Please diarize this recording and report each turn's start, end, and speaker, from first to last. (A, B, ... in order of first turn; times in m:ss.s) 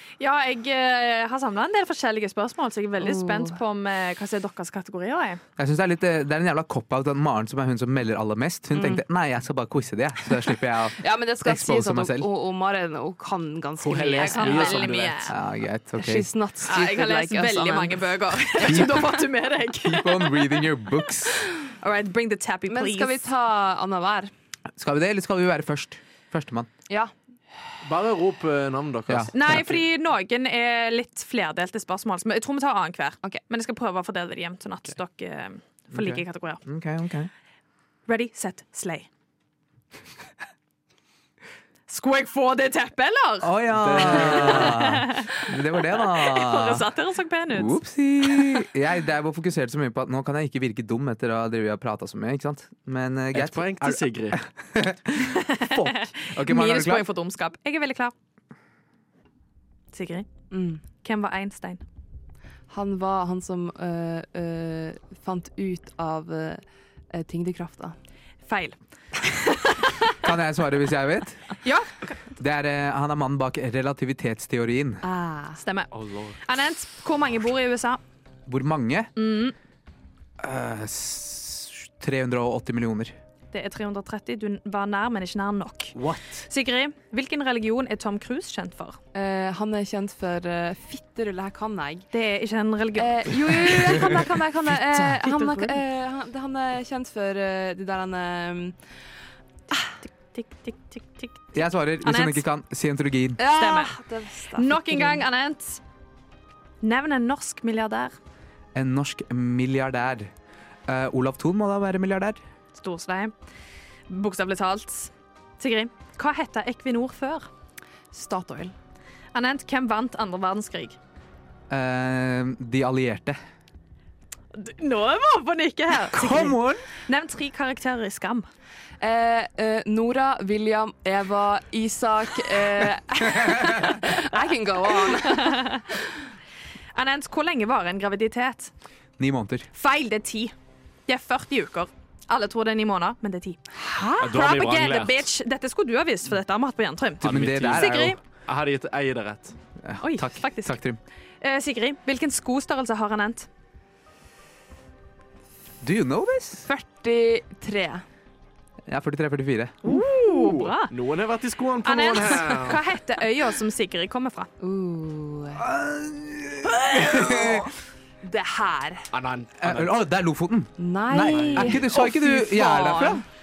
0:00.2-0:05.4 A
0:03.0-0:03.6 B
0:05.6-0:12.3 C
0:08.8-0:09.0 B
0:11.0-0:14.9 B
0:13.8-0:15.3 D
0:14.2-0:15.4 A
0:15.3-0:16.3 C
0:16.0-0:18.0 B
0:16.7-0:20.7 A
0:18.6-0:19.1 C
0:19.8-0:21.4 C
0:21.6-0:23.3 A
0:22.7-0:24.3 B
0:24.8-0:26.7 C
0:27.8-0:29.8 D
0:29.1-0:29.6 C
0:29.3-0:36.6 A
0:35.9-0:37.3 C
0:38.1-0:39.1 A
0:41.9-0:45.5 A
0:43.4-0:46.8 C
0:43.7-0:44.8 D
0:46.0-0:47.8 A
0:47.5-0:57.1 C
0:53.3-0:54.4 D
0:55.4-0:58.1 A
0:59.9-1:00.3 A
1:00.5-1:00.8 B
1:01.0-1:01.8 A
1:02.7-1:08.0 B
1:08.5-1:10.2 A
1:10.2-1:11.5 C
1:11.6-1:12.2 A
1:12.4-1:15.0 C
1:15.0-1:15.6 B
1:15.6-1:18.0 A
1:15.9-1:16.4 D
1:18.5-1:19.1 C
1:19.2-1:19.6 A
1:20.4-1:23.2 C
1:23.5-1:26.0 A
1:26.5-1:29.0 A
1:29.1-1:32.1 B
1:32.1-1:35.8 A
1:33.0-1:38.8 B
1:40.0-1:42.4 A
1:41.5-1:43.4 C
1:43.4-1:45.2 B
1:43.6-1:44.0 A
1:44.5-1:45.8 A
1:46.8-1:48.1 A
1:48.8-1:50.3 C
1:50.9-1:52.4 C
1:52.7-1:53.3 A
1:54.1-1:57.5 A
1:58.1-1:58.8 B
1:59.3-2:01.0 A
2:01.7-2:03.4 C
2:04.5-2:08.5 A
2:06.1-2:06.9 C
2:09.0-2:15.8 B
2:13.4-2:13.8 C
2:15.2-2:15.8 A
2:16.9-2:18.7 A
2:19.2-2:19.7 C
2:19.8-2:20.5 A
2:21.1-2:23.6 A
2:23.8-2:24.3 B
2:24.2-2:25.2 D
2:24.2-2:28.2 A
2:27.2-2:28.0 D
2:27.2-2:28.2 C
2:28.5-2:29.6 D
2:29.8-2:31.0 C
2:30.0-2:30.8 A
2:31.4-2:33.5 A
2:35.8-2:36.7 C
2:36.6-2:38.0 B
2:38.9-2:39.8 C
2:39.8-2:40.9 A
2:39.8-2:42.8 D
2:41.8-2:44.5 A
2:44.6-2:45.6 B
2:45.6-2:47.7 C
2:48.2-2:49.1 B
2:49.1-2:50.0 D
2:49.6-2:53.2 C
2:50.8-2:53.2 B
2:51.1-2:51.7 D